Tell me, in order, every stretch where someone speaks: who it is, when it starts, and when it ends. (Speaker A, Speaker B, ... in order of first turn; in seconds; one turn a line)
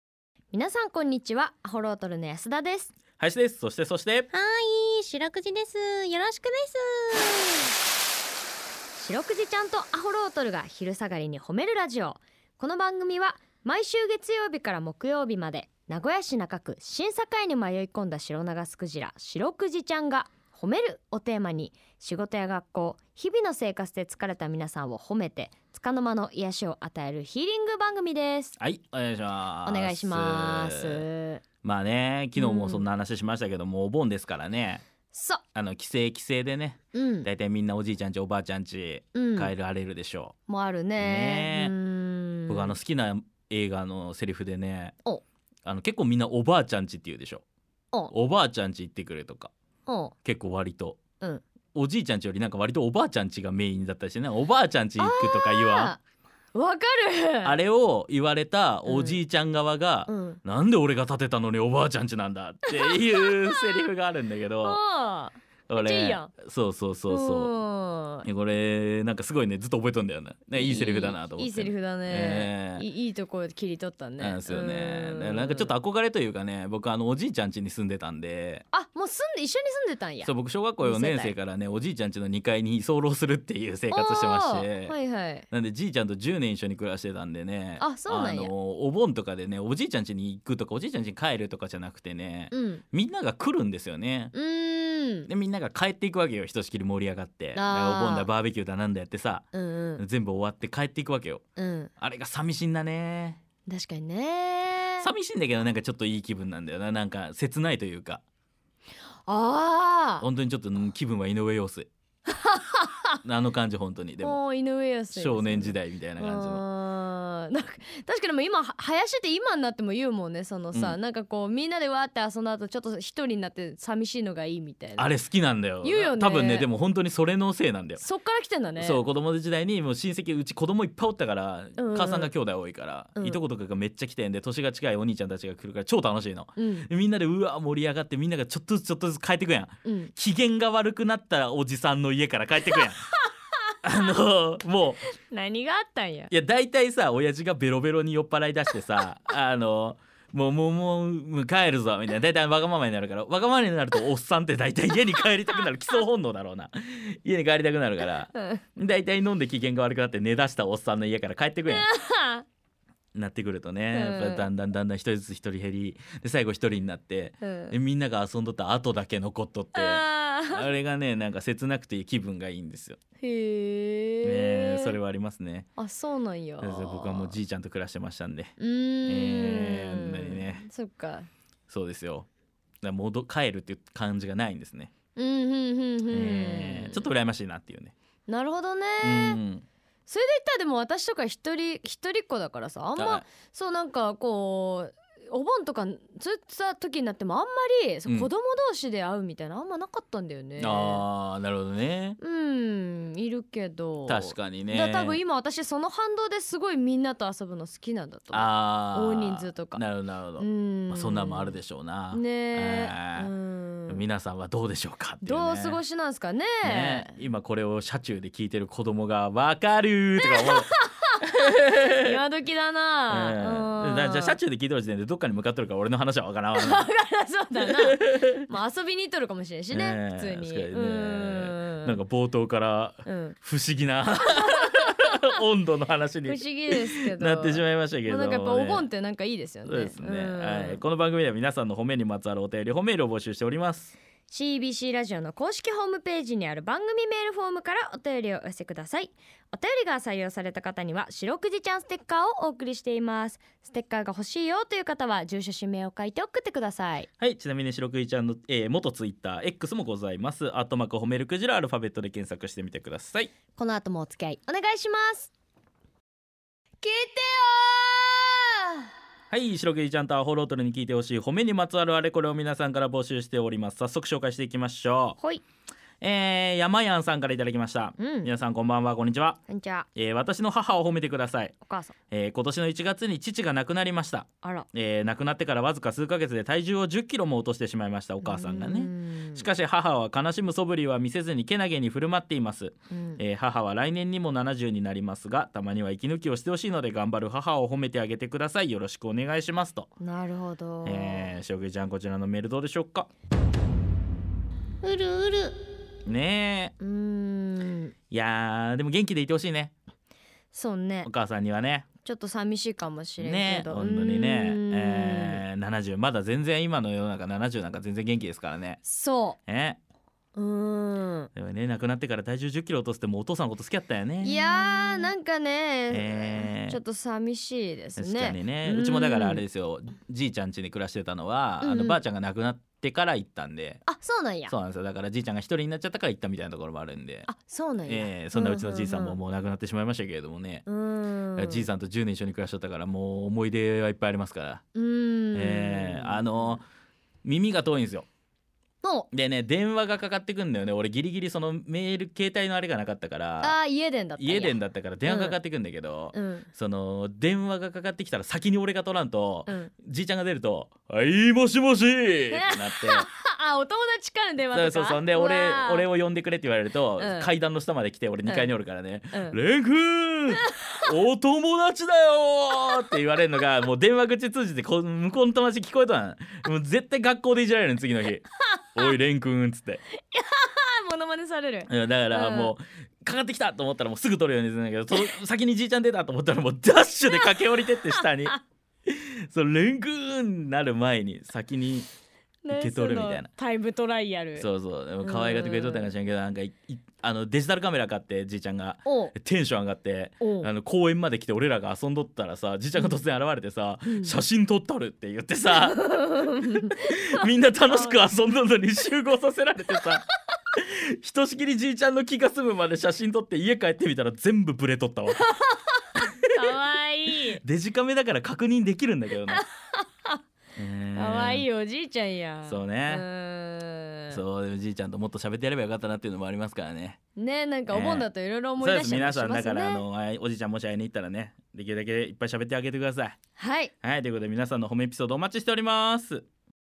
Speaker A: 0.5-2.9
Speaker B: 3.2-4.3
Speaker C: 4.3-7.7
Speaker A: 8.9-28.6
Speaker B: 28.6-31.1
Speaker A: 29.6-31.4
Speaker B: 31.6-34.8
Speaker A: 32.4-32.9
Speaker A: 35.1-35.4
Speaker B: 35.5-40.3
Speaker A: 36.9-37.3
Speaker A: 39.1-39.5
Speaker A: 40.5-42.7
Speaker B: 41.0-41.7
Speaker B: 42.5-45.0
Speaker B: 45.6-47.4
Speaker B: 48.1-49.5
Speaker A: 49.9-50.1
Speaker B: 50.2-51.0
Speaker B: 51.7-55.9
Speaker A: 55.0-56.0
Speaker A: 56.5-57.5
Speaker B: 57.4-64.8
Speaker A: 58.9-59.2
Speaker A: 60.1-60.4
Speaker A: 62.7-63.8
Speaker A: 64.6-66.3
Speaker B: 65.7-67.5
Speaker A: 67.1-68.3
Speaker B: 68.2-72.8
Speaker A: 70.5-75.7
Speaker B: 74.2-78.6
Speaker A: 78.7-81.3
Speaker B: 80.2-84.9
Speaker A: 83.9-85.5
Speaker B: 85.5-94.3
Speaker A: 87.8-88.5
Speaker A: 92.5-92.8
Speaker A: 94.3-95.3
Speaker B: 95.3-99.5
Speaker A: 97.5-98.3
Speaker A: 99.5-100.0
Speaker B: 100.0-101.4
Speaker A: 101.6-101.9
Speaker B: 102.0-103.4
Speaker A: 103.7-105.1
Speaker B: 105.0-108.2
Speaker A: 109.2-110.2
Speaker B: 110.2-111.9
Speaker A: 112.3-113.2
Speaker B: 113.2-114.4
Speaker A: 114.2-125.1
Speaker B: 115.1-116.6
Speaker B: 125.0-128.0
Speaker A: 125.8-126.7
Speaker A: 128.0-129.0
Speaker B: 128.8-143.0
Speaker A: 131.8-132.3
Speaker A: 136.6-136.9
Speaker A: 139.8-140.1
Speaker A: 142.7-143.7
Speaker B: 143.8-145.0
Speaker A: 145.2-146.3
Speaker B: 146.3-161.9
Speaker A: 158.3-158.6
Speaker A: 161.7-162.4
Speaker B: 163.2-173.0
Speaker A: 163.9-164.5
Speaker A: 167.4-167.8
Speaker A: 169.8-170.7
Speaker A: 173.2-175.0
Speaker B: 174.2-175.7
Speaker A: 175.8-177.4
Speaker B: 176.6-178.5
Speaker A: 178.6-181.3
Speaker B: 179.1-180.7
Speaker B: 181.7-182.3
Speaker B: 182.8-184.9
Speaker A: 185.2-187.1
Speaker B: 186.1-187.9
Speaker A: 188.3-189.4
Speaker B: 189.0-189.6
Speaker A: 190.1-201.1
Speaker B: 193.0-193.2
Speaker B: 200.6-202.2
Speaker A: 202.2-209.8
Speaker B: 204.1-205.2
Speaker B: 208.3-213.3
Speaker A: 210.4-211.6
Speaker A: 212.1-214.0
Speaker B: 213.9-215.8
Speaker A: 215.2-217.1
Speaker B: 216.6-220.7
Speaker A: 220.2-224.4
Speaker B: 221.6-222.2
Speaker B: 223.1-226.9
Speaker A: 226.6-232.0
Speaker B: 227.6-228.4
Speaker B: 229.7-238.9
Speaker A: 233.1-233.4
Speaker A: 234.4-235.2
Speaker A: 236.2-240.8
Speaker B: 239.7-243.9
Speaker A: 244.3-257.1
Speaker B: 257.2-263.3
Speaker A: 263.6-265.3
Speaker A: 266.8-268.9
Speaker B: 269.3-275.2
Speaker B: 276.0-279.4
Speaker A: 278.0-278.3
Speaker A: 279.5-279.9
Speaker B: 280.0-281.5
Speaker A: 281.6-281.9
Speaker B: 282.1-299.9
Speaker A: 288.2-289.5
Speaker A: 292.9-293.2
Speaker A: 300.0-301.3
Speaker B: 300.8-303.1
Speaker C: 304.8-305.5
Speaker B: 306.1-306.7
Speaker A: 306.8-307.9
Speaker B: 308.1-309.7
Speaker A: 310.5-311.1
Speaker B: 311.0-311.9
Speaker A: 312.0-315.4
Speaker B: 313.2-318.8
Speaker A: 318.8-319.4
Speaker B: 319.5-319.8
Speaker A: 320.4-321.3
Speaker B: 321.4-325.1
Speaker A: 324.2-329.4
Speaker B: 325.9-326.8
Speaker B: 328.0-333.8
Speaker A: 331.6-332.0
Speaker A: 333.9-334.6
Speaker B: 334.5-337.3
Speaker A: 337.3-339.2
Speaker B: 337.9-340.7
Speaker A: 340.7-341.7
Speaker B: 341.4-344.6
Speaker A: 344.8-346.6
Speaker B: 345.3-346.6
Speaker B: 347.2-348.1
Speaker A: 348.8-349.1
Speaker B: 349.1-353.6
Speaker A: 353.4-355.4
Speaker B: 354.2-363.1
Speaker A: 356.1-356.5
Speaker A: 359.5-359.7
Speaker A: 362.3-365.9
Speaker B: 364.5-379.8
Speaker A: 367.0-367.3
Speaker A: 368.2-368.5
Speaker A: 378.6-378.9
Speaker A: 380.1-382.6
Speaker B: 381.7-391.9
Speaker A: 387.1-388.4
Speaker A: 392.4-394.5
Speaker B: 392.5-393.3
Speaker B: 394.4-405.9
Speaker A: 395.0-395.9
Speaker A: 398.9-399.1
Speaker A: 400.2-400.5
Speaker A: 403.9-404.1
Speaker A: 405.5-408.0
Speaker B: 406.7-415.2
Speaker A: 415.2-417.4
Speaker B: 417.3-419.4
Speaker A: 419.3-420.2
Speaker B: 420.6-421.5
Speaker A: 420.9-424.2
Speaker B: 422.5-423.1
Speaker B: 424.1-427.0
Speaker A: 427.2-429.8
Speaker B: 427.7-433.2
Speaker A: 433.4-433.7
Speaker B: 433.8-436.2